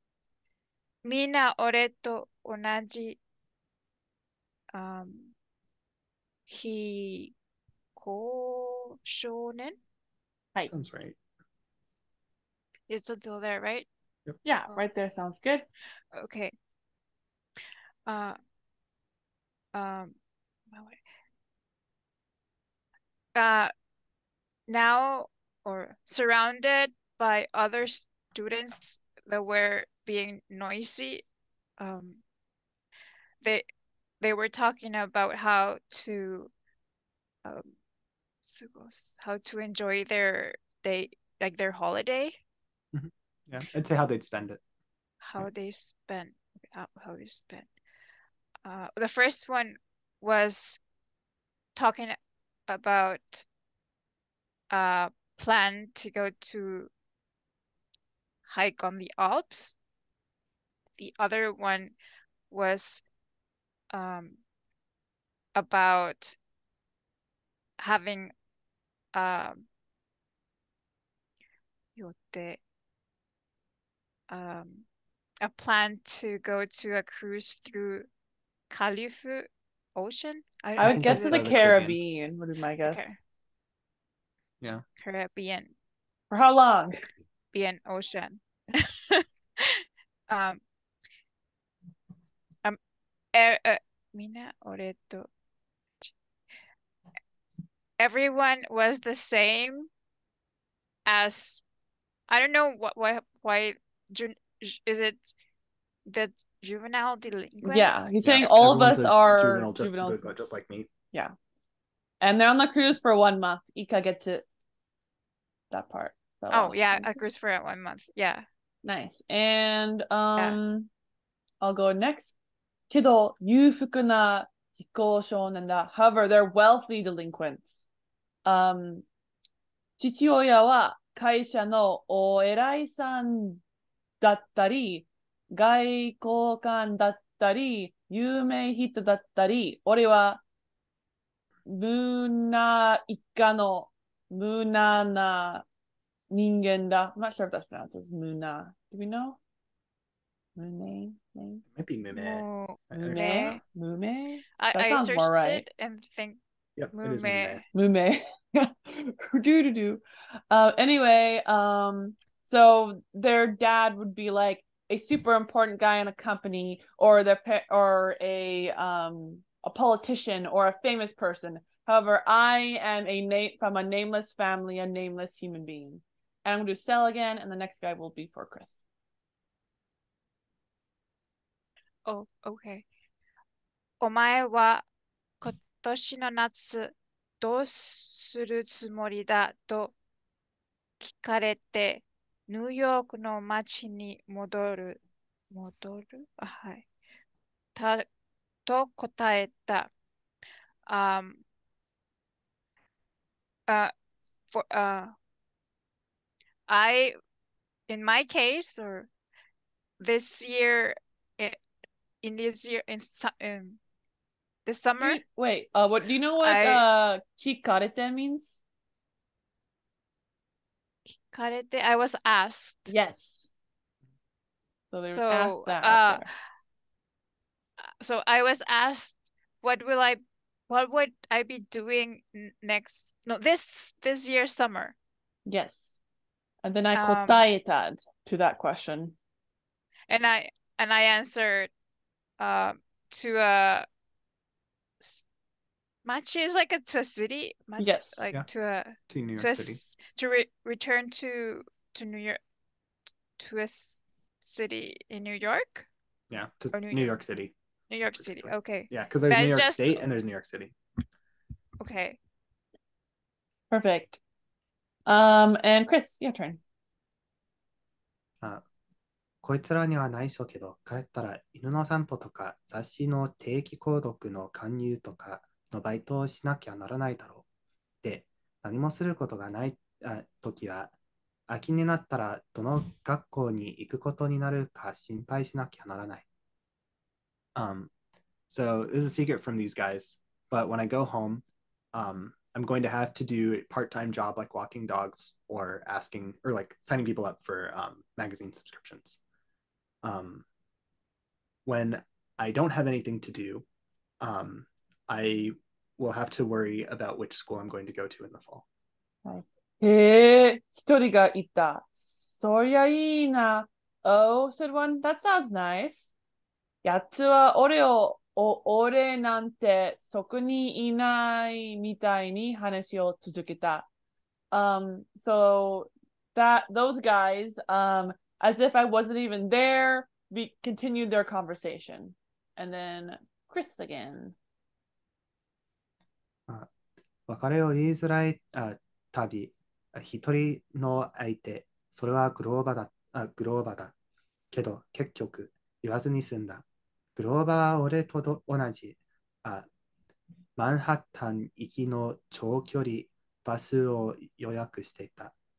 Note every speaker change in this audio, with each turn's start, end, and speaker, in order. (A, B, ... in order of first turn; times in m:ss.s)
0:01.0-0:03.2 A
0:04.7-0:05.3 A
0:06.5-0:07.3 A
0:08.0-0:09.8 A
0:10.7-0:11.2 B
0:12.9-0:13.9 A
0:14.4-0:15.7 C
0:16.1-0:16.5 A
0:18.1-0:18.4 A
0:19.7-0:20.2 A
0:20.7-0:21.0 A
0:23.4-0:23.7 A
0:24.7-0:31.2 A
0:31.8-0:32.2 A
0:34.2-0:36.5 A
0:37.4-0:37.7 A
0:38.4-0:42.4 A
0:42.9-0:44.6 B
0:45.2-0:47.7 A
0:48.6-0:50.8 A
0:51.8-0:52.2 A
0:52.7-0:53.5 A
0:54.7-0:56.9 A
0:58.5-0:59.8 A
1:01.0-1:02.0 A
1:02.5-1:03.0 A
1:03.9-1:04.4 A
1:05.6-1:06.4 A
1:07.8-1:08.3 A
1:09.1-1:09.7 A
1:12.0-1:12.6 A
1:14.3-1:14.9 A
1:15.4-1:18.1 A
1:18.7-1:21.6 A
1:20.8-1:22.0 B
1:20.8-1:23.1 C
1:22.8-1:23.2 A
1:25.0-1:25.7 A
1:26.3-1:27.0 C
1:27.5-1:30.6 A
1:33.3-1:35.3 A
1:38.0-1:39.9 A
1:41.1-1:41.6 A
1:42.3-1:45.3 A
1:46.1-1:48.1 A
1:47.6-1:50.2 C
1:48.2-1:50.9 B
1:52.2-1:54.4 C
1:55.7-1:57.2 C
1:56.5-1:58.4 A
1:58.8-2:00.9 C
2:01.6-2:02.3 C
2:02.9-2:07.7 C
2:08.4-2:09.0 C
2:10.0-2:13.6 C
2:14.2-2:20.4 C
2:21.7-2:25.6 C
2:26.3-2:29.4 C
2:30.6-2:31.6 C
2:31.7-2:33.3 B
2:32.1-2:33.6 A
2:33.0-2:35.6 C
2:34.6-2:36.4 A
2:36.8-2:37.6 B
2:36.9-2:37.6 A
2:37.7-2:58.8 C
3:02.1-3:02.9 A
3:04.0-3:04.9 A
3:05.4-3:09.9 A
3:11.0-3:16.9 A
3:17.8-3:18.1 A
3:18.7-3:19.9 A
3:20.9-3:21.4 A
3:24.5-3:25.1 A
3:26.7-3:27.2 A
3:27.9-3:29.1 A
3:30.0-3:31.6 A
3:32.2-3:33.8 A
3:34.7-3:35.2 A
3:35.0-3:38.6 C
3:36.4-3:36.8 A
3:41.3-3:42.9 A
3:42.9-3:43.5 C
3:44.9-3:46.3 C
3:45.1-3:46.2 A
3:48.0-3:55.0 A
3:55.5-3:56.0 C
3:56.6-3:59.2 C
3:57.0-3:57.4 A
4:00.1-4:01.7 A
4:02.4-4:03.9 A
4:05.0-4:05.3 A
4:06.0-4:12.4 A
4:07.8-4:08.2 C
4:09.1-4:09.8 B
4:13.4-4:15.9 A
4:16.3-4:17.6 B
4:16.7-4:17.2 A
4:17.9-4:20.1 A
4:18.1-4:20.8 B
4:21.8-4:22.2 A
4:23.7-4:24.2 C
4:25.1-4:26.6 C
4:29.4-4:37.4 B
4:38.0-4:40.9 B
4:41.5-4:46.3 B
4:47.6-4:47.9 B
4:48.5-4:59.2 B
5:00.0-5:00.4 B
5:01.7-5:03.7 B
5:04.2-5:08.6 B
5:09.2-5:16.1 C
5:16.8-5:23.8 C
5:24.5-5:34.4 C
5:37.3-5:43.9 B
5:44.5-5:46.6 B
5:47.2-5:49.7 B
5:50.6-5:55.4 B